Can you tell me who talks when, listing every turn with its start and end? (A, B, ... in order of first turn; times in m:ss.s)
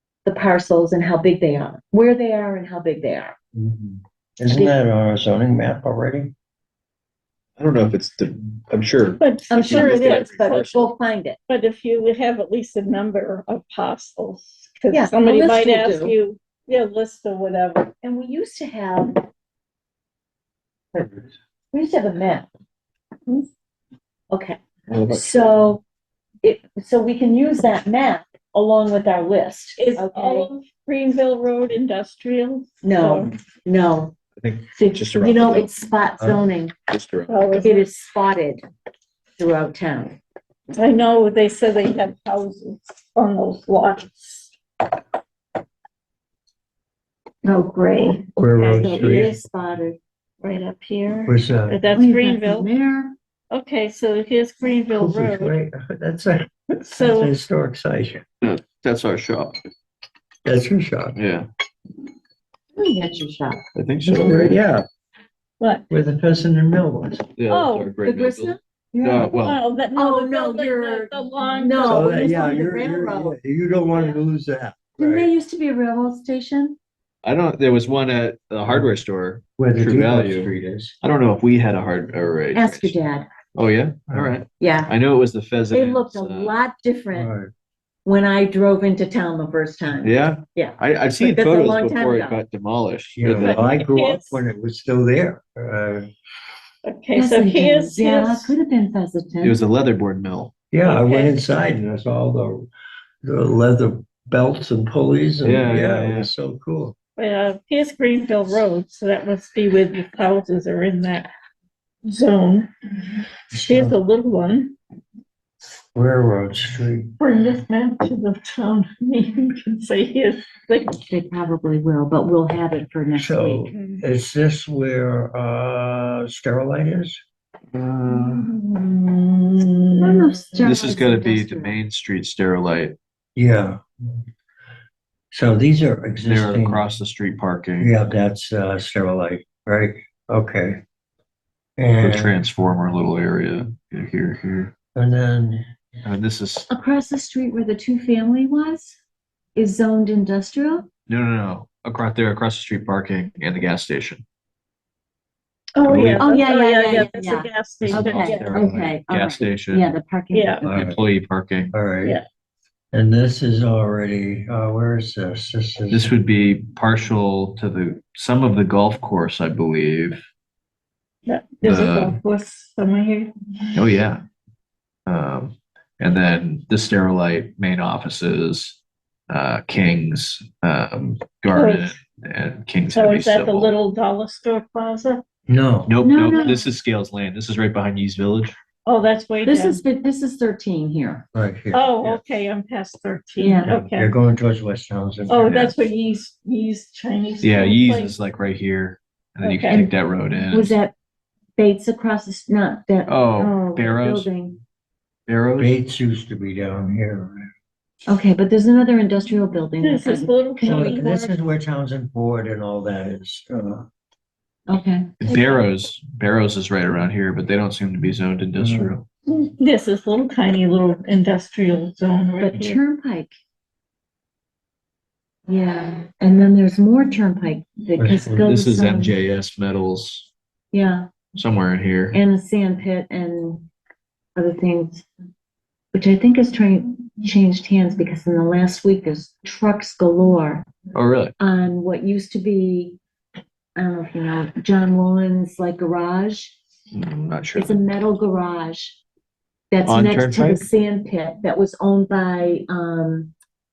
0:00.3-0:03.4 A
0:03.5-0:06.3 B
0:04.5-0:04.8 A
0:07.6-0:10.9 C
0:09.2-0:10.8 D
0:09.5-0:11.4 A
0:11.5-0:17.9 D
0:14.9-0:16.2 A
0:18.0-0:19.2 A
0:21.7-0:22.5 A
0:24.3-0:25.8 A
0:24.9-0:25.7 C
0:26.4-0:30.5 A
0:29.8-0:33.3 D
0:32.8-0:34.2 A
0:34.4-0:35.7 C
0:34.8-0:36.7 A
0:36.2-0:36.4 B
0:36.9-0:37.5 C
0:37.3-0:37.9 D
0:37.6-0:38.6 A
0:39.4-0:40.2 A
0:40.8-0:44.5 D
0:47.4-0:48.3 D
0:48.4-0:49.3 B
0:48.4-0:50.0 A
0:48.8-0:49.4 D
0:50.4-0:52.7 D
0:51.2-0:51.8 B
0:51.9-0:53.2 A
0:53.5-0:55.5 D
0:55.0-0:58.2 B
0:56.9-0:57.3 D
0:58.4-0:59.6 C
1:00.4-1:01.2 B
1:01.2-1:01.5 C
1:02.8-1:03.6 A
1:03.8-1:04.6 C
1:04.0-1:04.8 B
1:05.6-1:05.9 D
1:05.9-1:07.3 B
1:07.4-1:09.6 C
1:07.5-1:07.9 D
1:08.0-1:09.3 A
1:09.4-1:12.9 D
1:10.0-1:13.4 A
1:11.8-1:15.3 B
1:13.9-1:14.2 A
1:15.0-1:16.8 A
1:17.2-1:23.0 C
1:19.6-1:21.0 B
1:22.5-1:23.3 A
1:23.6-1:26.6 C
1:24.1-1:24.4 B
1:24.6-1:24.9 A
1:25.7-1:27.3 A
1:27.1-1:27.5 B
1:28.0-1:32.4 A
1:30.0-1:33.6 C
1:33.2-1:36.1 B
1:33.4-1:34.4 D
1:36.8-1:38.5 D
1:37.1-1:39.6 A
1:39.4-1:40.6 C
1:40.7-1:42.7 B
1:40.8-1:41.4 D
1:43.2-1:47.0 B
1:45.4-1:46.3 C
1:47.2-1:51.3 D
1:52.0-1:54.8 D
1:53.6-1:54.0 B
1:55.9-1:57.1 B
1:57.2-2:01.0 D
2:01.1-2:03.7 A
2:03.2-2:07.2 B
2:03.7-2:04.0 D
2:07.7-2:08.5 C
2:08.2-2:10.8 D
2:10.0-2:11.8 A
2:10.6-2:13.0 C
2:13.4-2:14.2 B
2:15.3-2:16.8 B
2:16.2-2:18.0 C
2:17.8-2:20.8 B
2:21.8-2:22.4 B
2:22.0-2:24.8 C
2:24.9-2:25.6 B
2:26.0-2:26.7 C
2:26.7-2:29.0 A
2:29.6-2:30.9 A
2:31.1-2:34.2 C
2:35.8-2:38.6 D
2:35.8-2:37.1 C
2:36.2-2:40.7 A
2:37.8-2:39.9 C
2:40.3-2:40.6 D
2:40.6-2:41.0 B
2:40.7-2:41.7 C
2:41.7-2:42.2 B
2:42.9-2:46.1 B
2:45.9-2:50.2 C
2:51.3-2:53.8 D
2:51.6-2:52.2 C
2:53.8-2:54.2 C
2:55.1-3:03.7 C
3:01.5-3:02.0 D
3:02.9-3:05.2 D
3:05.5-3:06.0 B
3:05.9-3:08.6 C
3:06.0-3:06.7 A
3:08.9-3:09.8 D
3:09.4-3:11.3 A
3:11.3-3:12.2 B
3:11.7-3:14.1 D
3:13.4-3:13.8 A
3:13.7-3:15.5 B
3:15.3-3:18.2 D
3:15.4-3:15.8 C
3:17.4-3:20.8 C
3:19.4-3:19.9 D
3:20.5-3:20.9 A
3:21.6-3:24.6 A
3:23.1-3:24.3 C
3:25.3-3:25.7 C
3:25.6-3:27.5 B
3:28.1-3:31.1 A
3:29.8-3:31.4 D
3:30.6-3:33.9 B
3:34.7-3:35.6 A
3:35.2-3:39.0 C
3:38.6-3:38.9 B
3:39.3-3:42.8 D
3:42.4-3:43.4 A
3:45.5-3:49.2 A
3:48.0-3:48.5 B
3:48.4-3:50.3 C
3:50.7-3:51.1 A
3:51.4-3:52.2 C
3:52.1-3:53.6 A
3:54.4-3:55.1 A
3:55.9-4:00.7 A
4:00.9-4:01.4 C
4:01.4-4:03.0 A
4:03.8-4:06.6 A
4:06.9-4:07.8 C
4:07.6-4:09.0 A
4:09.7-4:13.3 A
4:09.9-4:10.7 C